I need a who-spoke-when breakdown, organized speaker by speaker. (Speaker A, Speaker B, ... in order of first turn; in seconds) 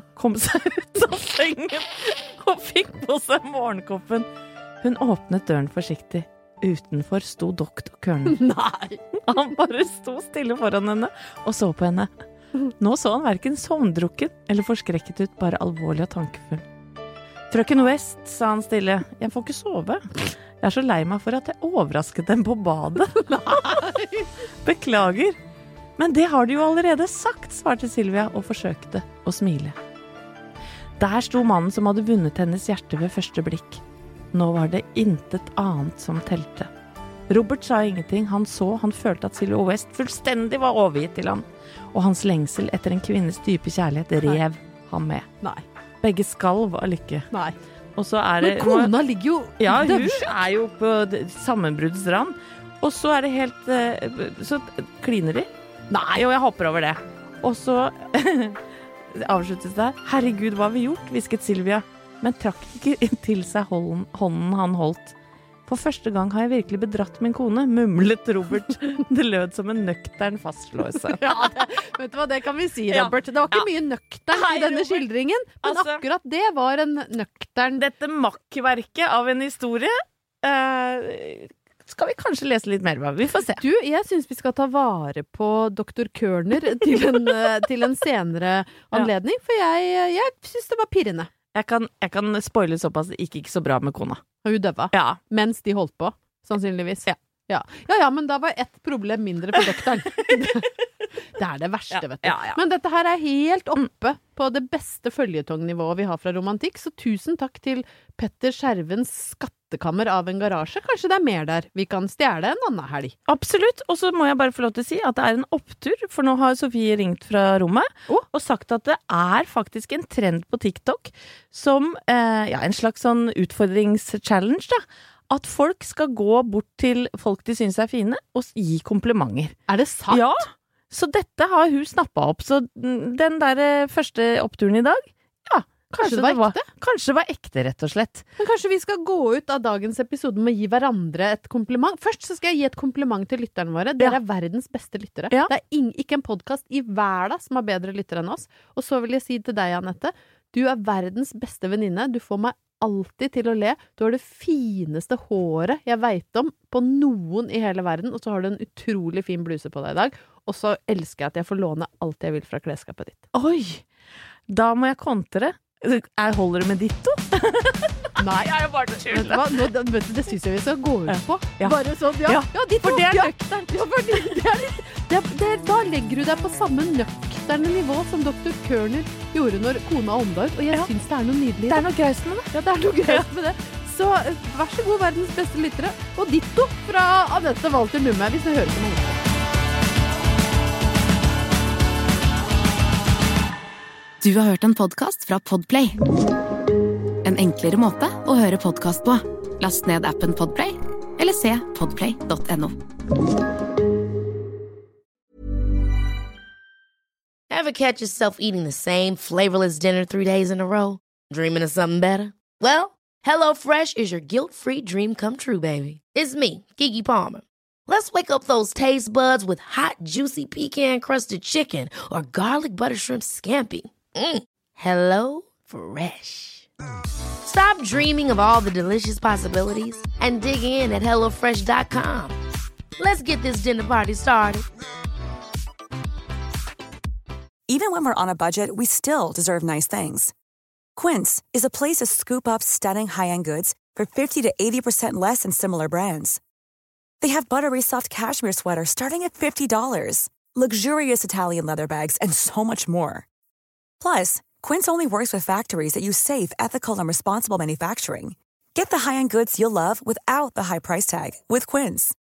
Speaker A: 0.1-4.3, 4.8-8.5, 9.2-12.1, 12.8-16.6, 17.5-23.9, 24.6-25.4, 26.0-29.8, 31.0-36.7, 37.3-45.3, 46.0-47.3, 48.0-48.9, 49.6-58.6, 59.1-65.2, 65.7-71.3, 72.9-73.7, 74.3-75.1, 75.6-76.0, 77.8-83.6, 87.0-87.3, 91.5-94.2, 94.9-95.2, 99.6-100.7, 101.9-102.6, 113.3-129.6, 130.1-138.3, 163.3-163.8, 164.5-169.7, 171.1-174.4, 181.7-183.3
Speaker B: 8.3-9.0, 23.3-24.3, 47.3-47.6, 48.4-50.3, 71.0-77.8, 83.5-91.3, 94.4-100.7, 101.3-113.2, 129.7-130.3, 135.9-136.7, 138.4-163.3, 168.2-168.5, 169.1-181.9, 182.5-189.2
Speaker C: 194.2-196.0, 197.2-202.8
Speaker D: 207.5-226.7, 227.4-232.3, 233.0-234.7
Speaker E: 237.7-240.3, 241.0-246.4, 247.2-253.3, 254.0-262.1